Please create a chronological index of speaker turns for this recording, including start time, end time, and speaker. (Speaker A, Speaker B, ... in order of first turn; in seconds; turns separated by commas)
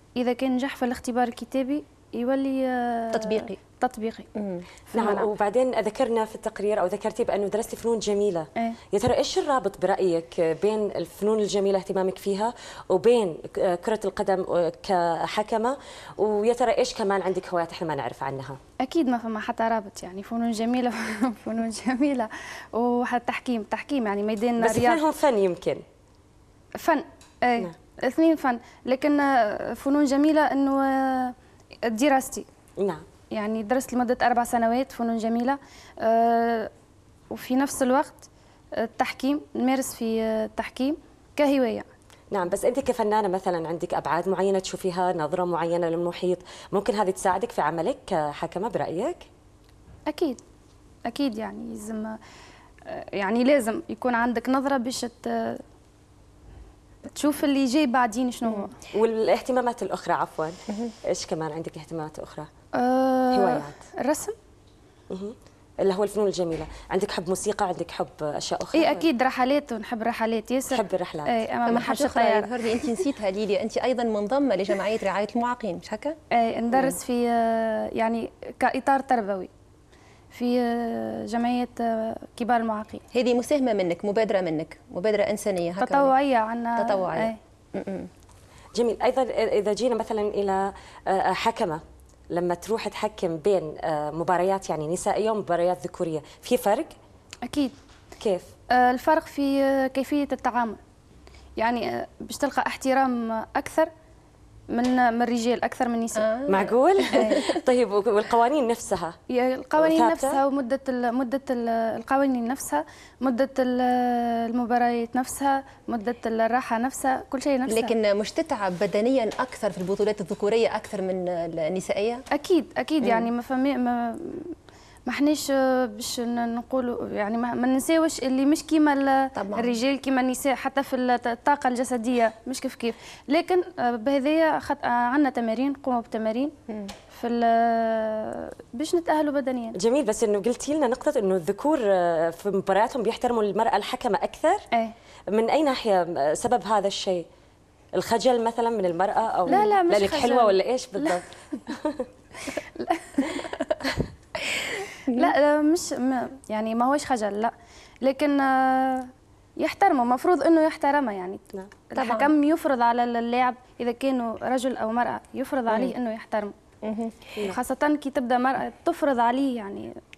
Speaker A: 0.2-4.3, Speaker B: 3.1-3.6, Speaker B: 4.3-4.6, Speaker C: 4.9-18.6, Speaker A: 5.0-5.3, Speaker A: 18.8-25.0, Speaker C: 24.6-25.8, Speaker A: 26.8-31.3, Speaker A: 31.9-32.5, Speaker A: 33.3-36.7, Speaker A: 37.3-38.3, Speaker A: 38.8-41.9, Speaker C: 42.3-49.2, Speaker A: 50.1-50.4, Speaker A: 51.1-52.2, Speaker A: 52.9-55.6, Speaker A: 57.1-58.7, Speaker C: 58.9-62.5, Speaker A: 62.8-64.3, Speaker C: 63.3-63.8, Speaker C: 65.1-69.1, Speaker A: 68.7-72.5, Speaker C: 70.7-71.8, Speaker B: 71.7-76.2, Speaker A: 76.4-79.5, Speaker A: 80.3-83.0, Speaker B: 83.1-86.1, Speaker A: 85.8-87.4, Speaker B: 86.8-88.1, Speaker C: 88.7-91.8, Speaker C: 92.3-96.9, Speaker A: 97.5-97.7, Speaker C: 98.2-98.5, Speaker A: 98.7-100.8, Speaker A: 101.6-103.9, Speaker A: 104.7-106.3, Speaker B: 106.2-106.5, Speaker C: 106.5-109.2, Speaker A: 107.1-107.4, Speaker B: 107.2-107.4, Speaker A: 109.3-117.9, Speaker C: 109.8-110.4, Speaker B: 117.7-122.2, Speaker A: 122.3-124.5, Speaker A: 125.1-136.5, Speaker B: 129.3-129.8, Speaker A: 137.1-139.8, Speaker C: 139.7-144.6, Speaker C: 145.3-147.2, Speaker C: 147.9-152.1, Speaker A: 149.5-151.2, Speaker A: 152.8-153.4, Speaker A: 155.1-166.5, Speaker B: 161.9-162.3, Speaker B: 166.8-167.2, Speaker A: 167.4-169.9